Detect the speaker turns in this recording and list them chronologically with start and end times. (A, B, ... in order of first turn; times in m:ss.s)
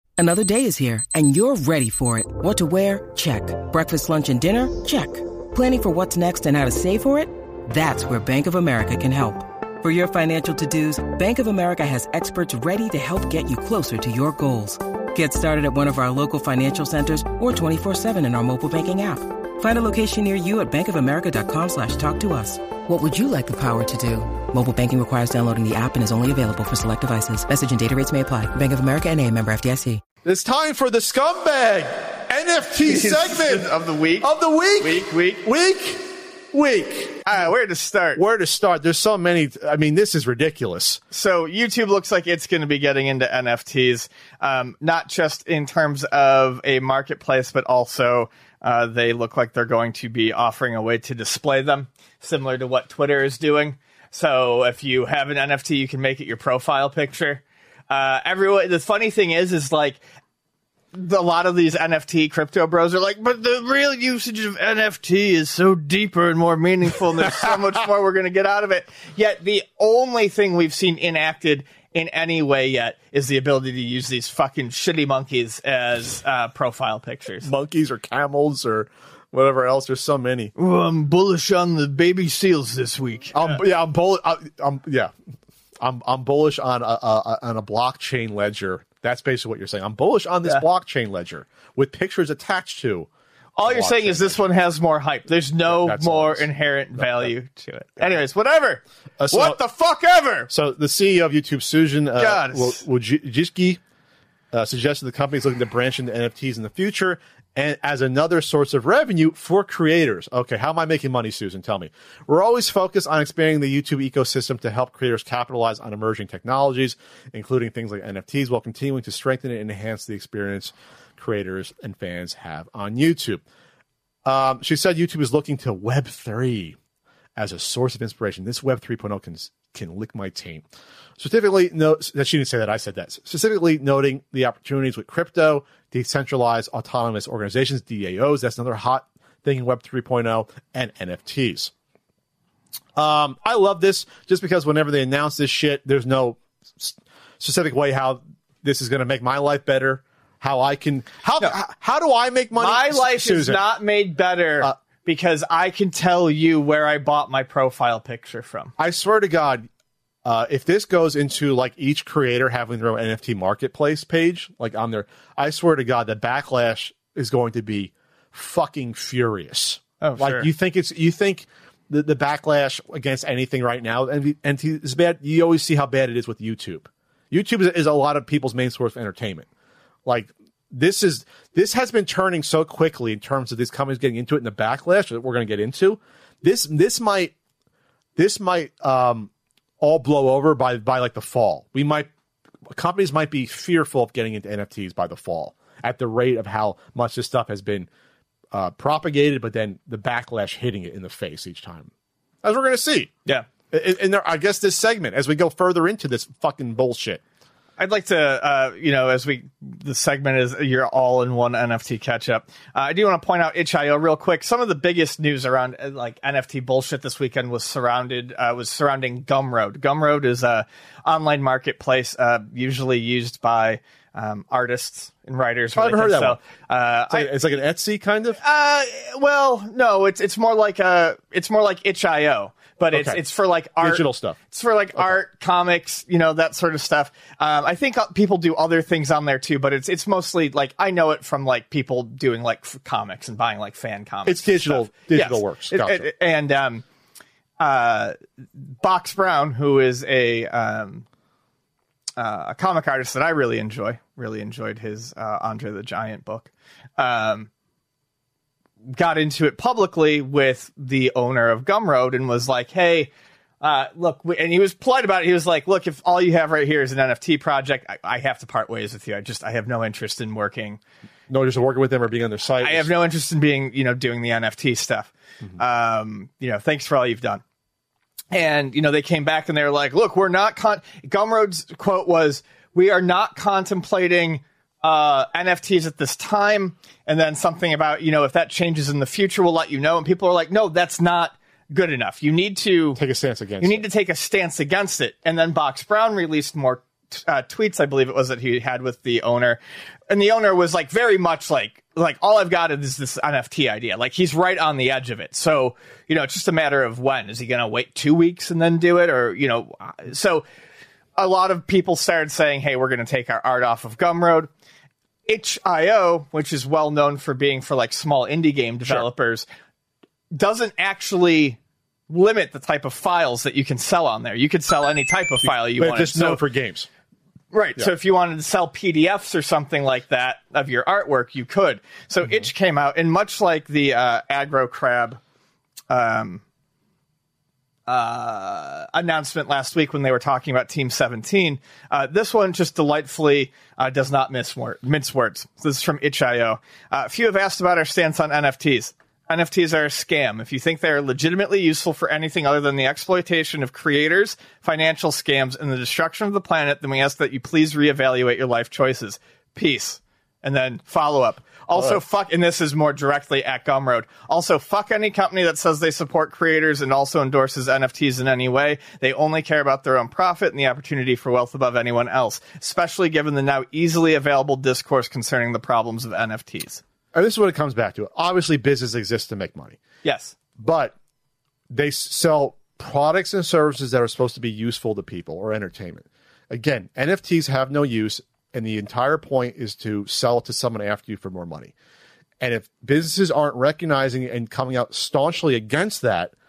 0:00.2-0:30.0 A
0:30.2-0:33.7 B
0:32.8-0:34.3 C
0:34.2-0:37.3 B
0:34.8-0:35.4 C
0:37.2-0:38.2 C
0:38.1-0:41.0 B
0:41.1-1:00.0 C
1:00.9-1:17.5 C
1:17.4-1:20.5 B
1:20.6-1:23.6 C
1:23.3-1:25.1 B
1:25.8-1:34.4 B
1:33.6-1:40.5 C
1:35.7-1:37.3 B
1:39.2-1:39.6 B
1:40.5-1:43.8 B
1:42.2-1:42.8 C
1:44.5-2:03.4 B
2:04.2-2:06.8 B
2:07.4-2:10.6 B
2:11.2-2:21.7 B
2:23.0-2:33.6 B
2:32.6-2:38.7 C
2:38.8-2:39.7 B
2:40.2-2:59.5 B
2:50.0-2:50.5 C
3:00.0-3:07.3 B
3:08.2-3:12.1 B
3:12.7-3:17.9 B
3:18.5-3:21.9 B
3:22.4-3:23.1 B
3:23.7-3:27.2 B
3:27.8-3:47.3 C
3:45.7-3:46.4 B
3:47.1-3:48.4 B
3:48.4-4:06.8 C
3:52.9-3:53.2 B
3:53.8-3:54.4 B
4:04.2-4:06.1 B
4:07.6-4:11.0 C
4:12.2-4:17.5 C
4:18.8-4:30.8 C
4:31.3-4:32.9 B
4:32.6-4:37.4 C
4:38.3-4:53.0 C
4:53.0-4:53.8 B
4:53.6-5:10.4 C
5:11.2-5:14.5 C
5:15.3-5:19.4 C
5:20.3-5:26.4 C
5:25.4-5:26.9 B
5:27.5-5:35.2 C
5:35.9-5:36.4 C
5:37.9-6:16.8 C
6:17.1-6:19.8 B
6:20.0-6:20.3 C
6:20.6-6:20.9 B
6:21.7-6:31.7 B
6:32.4-6:36.3 B